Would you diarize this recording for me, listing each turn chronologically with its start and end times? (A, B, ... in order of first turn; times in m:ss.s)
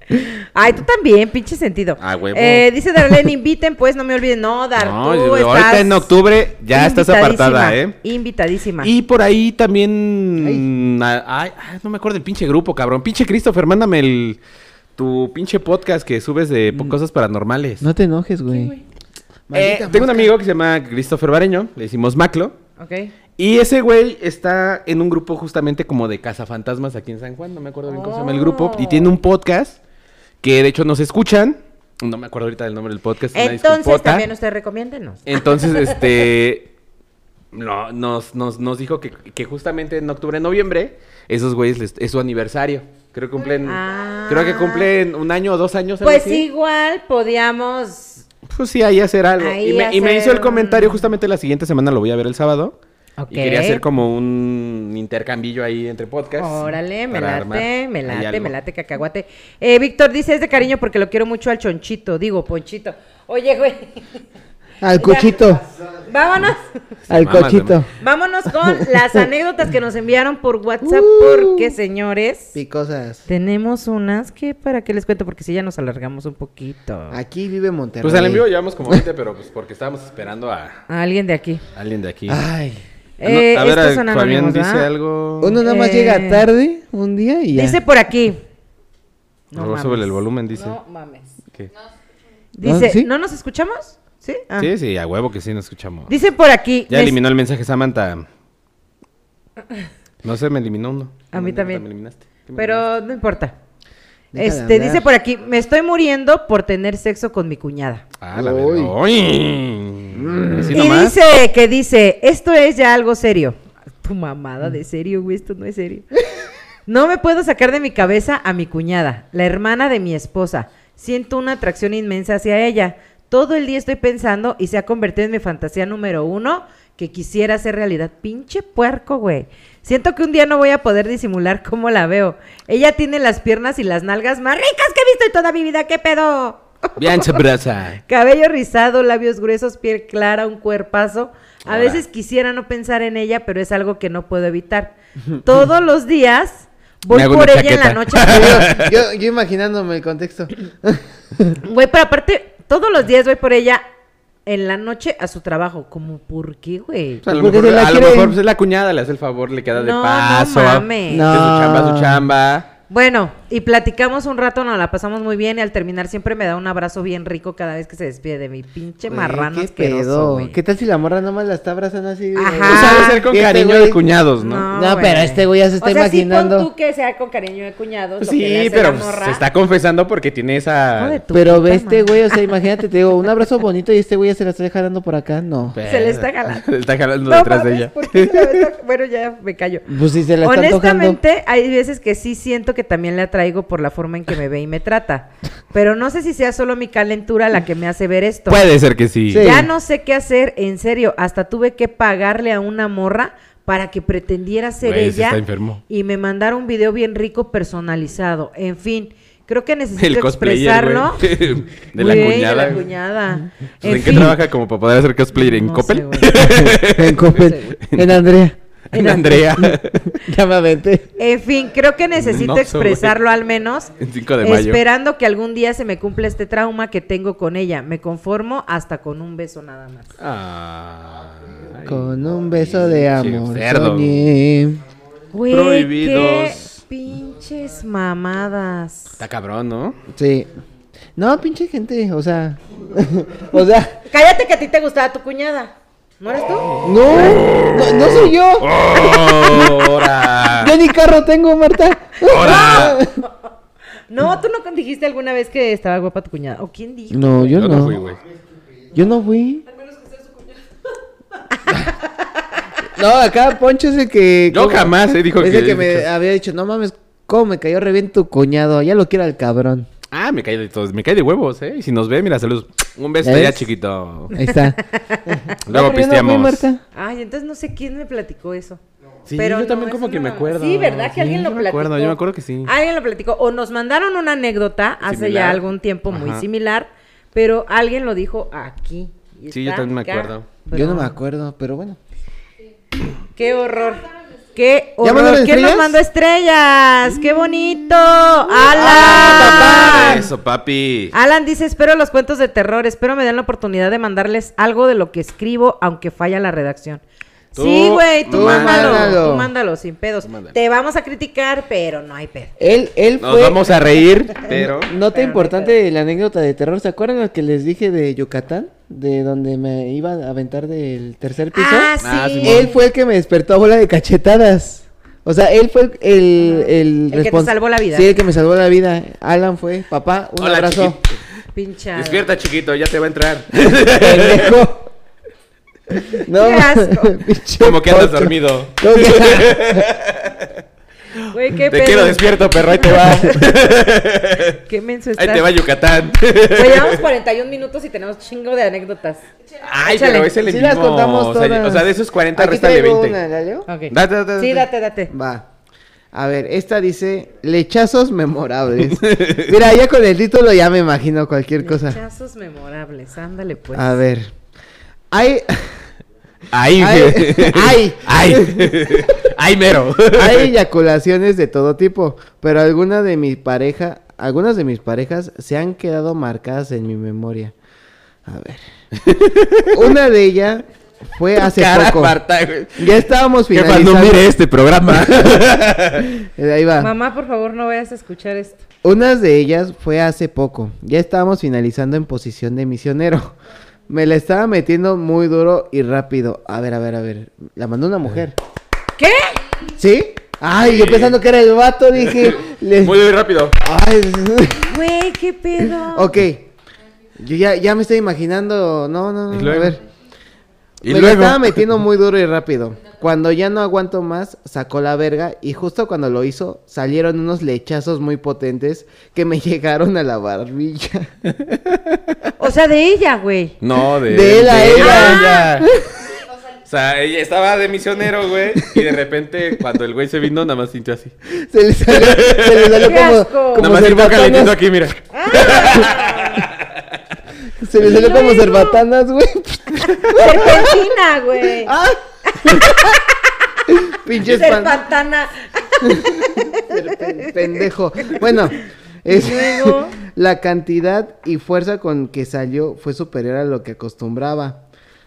0:00.2-0:06.1 A
0:02.0-0:02.7 B
0:04.8-0:08.0 B
0:06.7-0:08.9 A
0:08.8-0:14.4 B
0:10.4-0:10.6 C
0:15.0-0:17.8 B
0:17.8-0:18.7 C
0:18.5-0:18.8 A
0:19.5-0:20.3 C
0:19.5-0:22.5 B
0:22.8-0:23.1 A
0:23.4-0:29.8 B
0:27.9-0:29.1 A
0:30.4-0:34.3 B
0:33.3-0:36.1 A
0:35.3-0:36.7 B
0:37.5-0:46.4 B
0:43.6-0:44.9 A
0:46.0-0:48.2 A
0:48.5-0:52.7 B
0:49.4-0:51.0 A
0:53.2-0:53.8 A
0:53.3-0:58.5 B
0:56.4-1:04.1 A
1:04.8-1:05.6 C
1:05.0-1:06.7 A
1:07.1-1:07.8 B
1:07.1-1:07.9 C
1:08.0-1:12.5 A
1:10.8-1:11.7 C
1:12.5-1:13.2 C
1:13.3-1:17.2 A
1:17.1-1:19.0 C
1:18.0-1:20.8 B
1:20.9-1:21.6 A
1:21.7-1:22.4 B
1:22.3-1:22.8 C
1:23.2-1:24.9 A
1:23.2-1:25.6 B
1:25.4-1:27.8 C
1:25.6-1:26.4 A
1:27.5-1:28.4 A
1:29.5-1:31.3 A
1:29.5-1:30.8 B
1:32.6-1:34.7 A
1:32.6-1:33.1 C
1:34.6-1:36.1 B
1:36.1-1:37.2 A
1:36.9-1:38.2 B
1:40.2-1:42.8 B
1:41.3-1:41.8 A
1:42.5-1:43.5 A
1:44.3-1:45.0 C
1:44.4-1:48.0 A
1:48.2-1:51.2 B
1:48.3-1:48.9 C
1:50.1-1:50.8 C
1:50.7-1:56.1 A
1:56.9-2:17.4 A
2:17.0-2:18.0 B
2:18.1-2:28.7 A
2:21.6-2:22.0 B
2:27.1-2:28.9 B
2:28.2-2:31.6 C
2:31.6-2:33.8 A
2:34.4-2:37.2 A
2:37.2-2:42.7 B
2:37.3-2:38.4 C
2:39.7-2:41.3 A
2:41.1-2:42.2 C
2:42.9-2:50.6 A
2:49.1-2:54.0 C
2:52.4-2:53.2 A
2:52.6-2:54.7 B
2:54.4-2:59.4 A
2:54.7-2:56.7 C
2:58.2-3:01.2 B
3:01.0-3:02.4 A
3:01.3-3:05.8 C
3:05.7-3:08.7 B
3:05.8-3:06.6 A
3:07.3-3:09.9 A
3:09.9-3:11.2 C
3:10.4-3:18.6 A
3:18.5-3:19.6 B
3:19.3-3:19.7 C
3:19.4-3:31.3 A
3:24.8-3:25.8 B
3:30.0-3:32.9 B
3:31.9-3:34.4 A
3:33.8-3:38.1 B
3:35.4-3:36.7 A
3:36.4-3:38.6 C
3:37.3-3:37.8 A
3:38.9-3:39.5 A
3:38.9-3:40.2 B
3:39.6-3:41.1 C
3:41.2-3:50.1 A
3:42.2-3:43.1 B
3:44.0-3:44.8 B
3:50.2-3:54.3 B
3:51.8-3:54.8 C
3:55.3-3:59.2 A
3:55.5-3:56.8 B
3:59.2-4:00.0 B
4:00.1-4:00.5 C
4:01.2-4:04.0 C
4:04.1-4:06.8 A
4:06.7-4:10.7 B
4:06.8-4:13.1 C
4:12.2-4:13.0 B
4:12.3-4:13.0 A
4:14.1-4:17.6 A
4:17.1-4:18.0 C
4:17.5-4:18.2 B
4:18.9-4:19.7 C
4:22.9-4:29.9 C
4:24.5-4:26.1 B
4:30.1-4:34.3 B
4:33.2-4:33.7 C
4:34.3-4:36.8 C
4:34.3-4:35.4 A
4:35.6-4:36.6 B
4:36.9-4:38.8 A
4:39.2-4:42.7 B
4:39.4-4:51.2 A
4:45.0-4:46.4 B
4:49.5-4:50.5 B
4:50.7-4:52.0 C
4:53.4-5:00.3 A
4:55.0-4:56.0 C
4:58.6-5:01.1 B
4:58.6-5:00.3 C
5:01.1-5:07.0 A
5:07.5-5:09.2 B
5:07.5-5:12.6 A
5:08.3-5:09.5 C
5:10.2-5:10.5 B
5:12.6-5:13.8 C
5:13.2-5:14.9 B
5:14.4-5:31.0 C
5:14.9-5:15.7 A
5:21.5-5:22.7 A
5:22.0-5:22.7 B
5:26.4-5:28.1 A
5:30.4-5:31.2 B
5:31.5-5:32.3 A
5:32.0-5:34.6 B
5:33.7-5:34.9 C
5:36.1-5:39.9 C
5:36.3-5:37.2 A
5:37.6-5:40.5 B
5:41.3-5:43.6 A
5:41.6-5:44.6 B
5:44.6-5:45.5 A
5:45.2-5:47.0 B
5:46.5-5:49.2 A
5:49.6-5:53.2 B
5:49.8-5:50.3 A
5:50.4-5:53.7 C
5:53.7-5:55.1 A
5:53.9-5:54.7 B
5:55.1-5:55.5 C
5:56.1-6:02.0 C
5:58.9-5:59.5 B
6:01.6-6:04.0 A
6:03.7-6:04.3 C
6:05.1-6:05.8 C
6:06.5-6:10.5 B
6:06.8-6:09.1 C
6:10.1-6:17.5 C
6:18.2-6:18.6 C
6:18.9-6:19.8 B
6:19.7-6:22.2 C
6:21.4-6:26.2 B
6:22.8-6:24.3 C
6:26.2-6:26.9 C
6:26.8-6:28.6 A
6:28.8-6:33.3 C
6:33.9-6:38.4 C
6:39.0-6:39.4 A
6:39.7-6:43.0 C
6:40.6-6:41.2 B
6:42.1-6:43.6 B
6:43.6-6:44.8 C
6:44.6-6:46.1 A
6:45.8-6:46.5 C
6:47.2-6:49.8 C
6:49.3-6:49.8 B
6:50.8-6:51.6 B
6:50.8-7:01.1 C
7:02.4-7:03.6 A
7:03.6-7:05.7 B
7:04.0-7:06.2 C
7:04.7-7:05.4 A
7:06.6-7:11.1 B
7:08.6-7:08.9 C
7:11.4-7:14.6 C
7:11.9-7:13.0 B
7:12.8-7:13.7 A
7:13.6-7:16.8 B
7:15.1-7:16.4 A
7:17.6-7:20.8 C
7:17.8-7:18.8 A
7:20.1-7:21.7 A
7:21.4-7:22.8 C
7:23.7-7:24.8 C
7:24.2-7:27.3 A
7:25.8-7:34.6 C
7:29.1-7:30.0 A